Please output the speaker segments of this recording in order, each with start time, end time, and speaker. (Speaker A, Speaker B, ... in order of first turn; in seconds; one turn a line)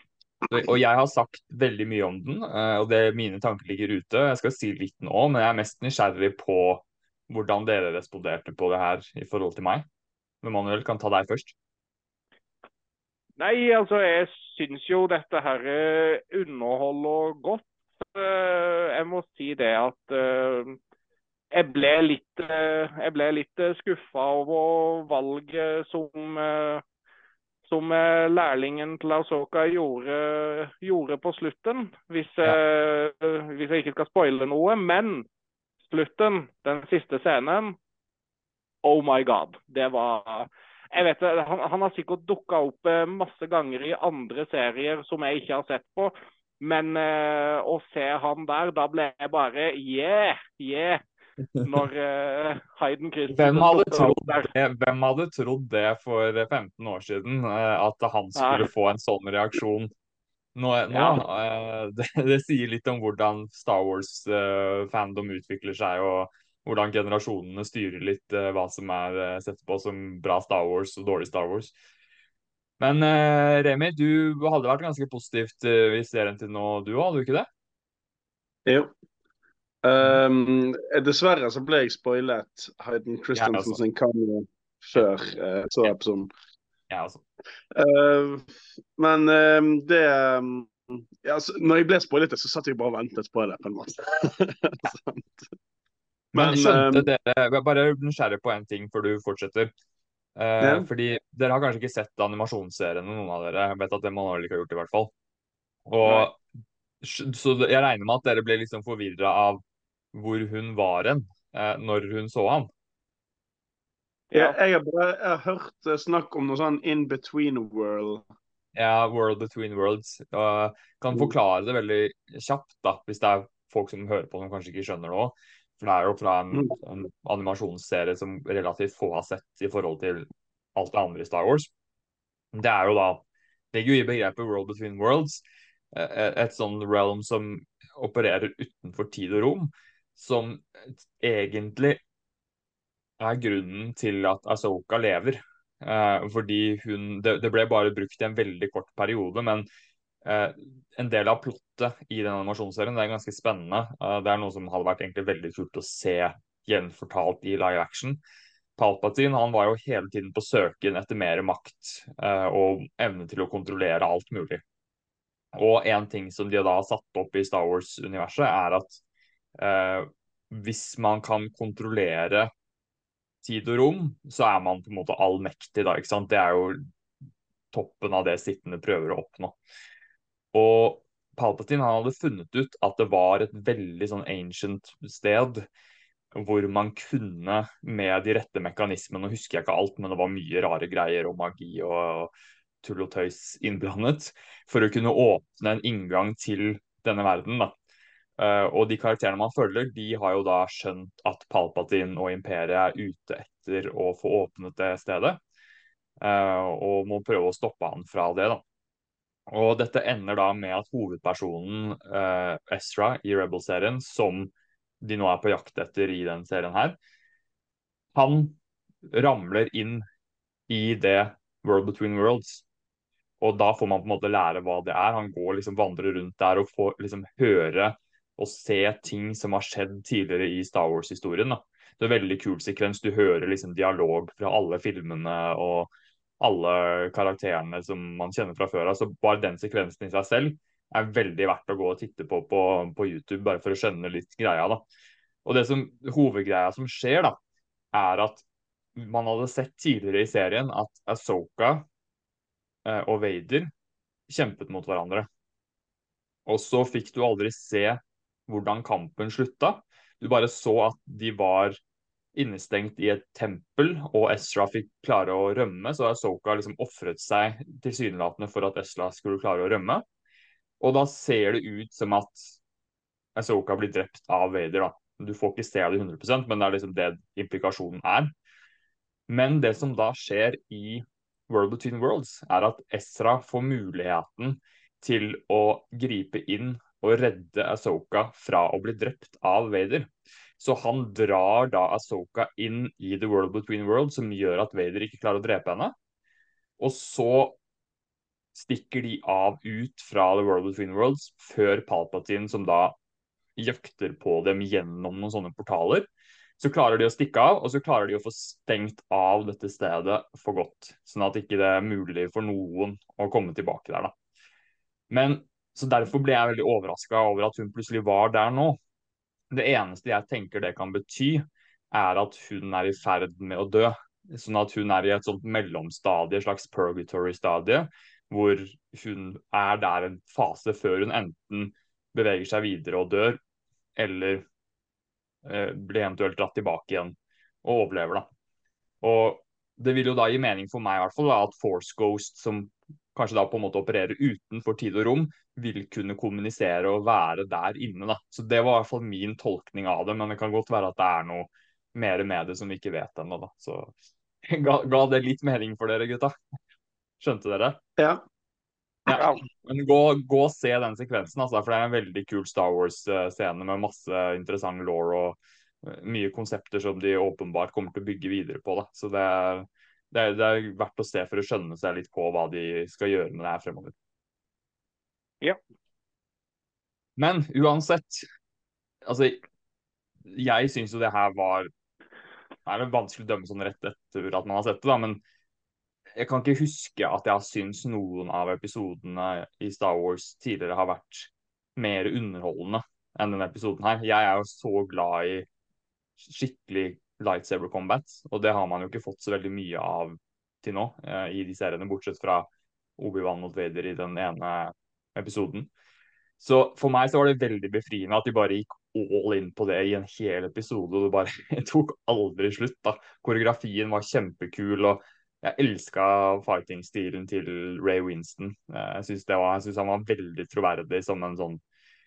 Speaker A: 0.5-9.8
Speaker A: 10.4-11.5
Speaker B: 13.4-20.8
Speaker B: 21.5-26.8
Speaker B: 27.7-35.3
Speaker B: 35.9-37.8
Speaker B: 38.8-51.0
Speaker B: 51.6-54.5
Speaker A: 53.3-59.9
Speaker B: 58.4-58.7
Speaker A: 60.5-71.7
Speaker B: 60.9-61.2
Speaker A: 72.8-77.5
Speaker C: 78.7-78.9
Speaker C: 79.8-86.3
Speaker A: 83.3-83.8
Speaker A: 86.9-87.2
Speaker C: 87.7-95.5
Speaker A: 96.3-99.7
Speaker C: 96.3-97.1
Speaker A: 100.4-105.1
Speaker C: 100.6-100.9
Speaker A: 105.9-106.4
Speaker A: 107.0-109.6
Speaker A: 110.1-112.7
Speaker B: 114.3-114.6
Speaker C: 114.3-118.2
Speaker A: 118.8-131.7
Speaker A: 132.5-133.2
Speaker A: 133.7-135.4
Speaker A: 135.9-142.0
Speaker A: 143.2-149.7
Speaker A: 150.2-158.2
Speaker A: 158.8-164.6
Speaker A: 165.5-169.0
Speaker A: 169.6-172.5
Speaker A: 173.4-176.8
Speaker A: 177.7-179.6
Speaker A: 180.5-185.7
Speaker A: 186.3-192.3
Speaker A: 192.8-197.8
Speaker A: 198.4-205.4
Speaker A: 206.2-208.6
Speaker A: 209.5-217.0
Speaker A: 218.2-220.0
Speaker A: 220.7-222.6
Speaker A: 223.4-244.8
Speaker A: 245.4-247.4
Speaker A: 247.9-248.4
Speaker A: 249.0-251.8
Speaker A: 252.8-253.7
Speaker A: 254.3-255.3
Speaker A: 256.5-261.8
Speaker A: 262.4-270.0
Speaker A: 270.8-272.6
Speaker A: 273.4-278.3
Speaker A: 279.3-295.9
Speaker A: 296.8-297.6
Speaker A: 298.6-303.0
Speaker A: 303.6-314.1
Speaker A: 315.1-318.8
Speaker A: 319.5-333.4
Speaker A: 334.0-334.5
Speaker A: 335.4-338.3
Speaker A: 339.0-353.9
Speaker A: 354.5-356.3
Speaker A: 357.2-357.8
Speaker C: 358.0-358.2
Speaker A: 359.1-373.9
Speaker A: 377.2-378.3
Speaker A: 379.1-379.4
Speaker A: 380.3-381.7
Speaker A: 382.7-385.2
Speaker A: 386.2-395.5
Speaker A: 396.2-405.7
Speaker A: 406.4-421.6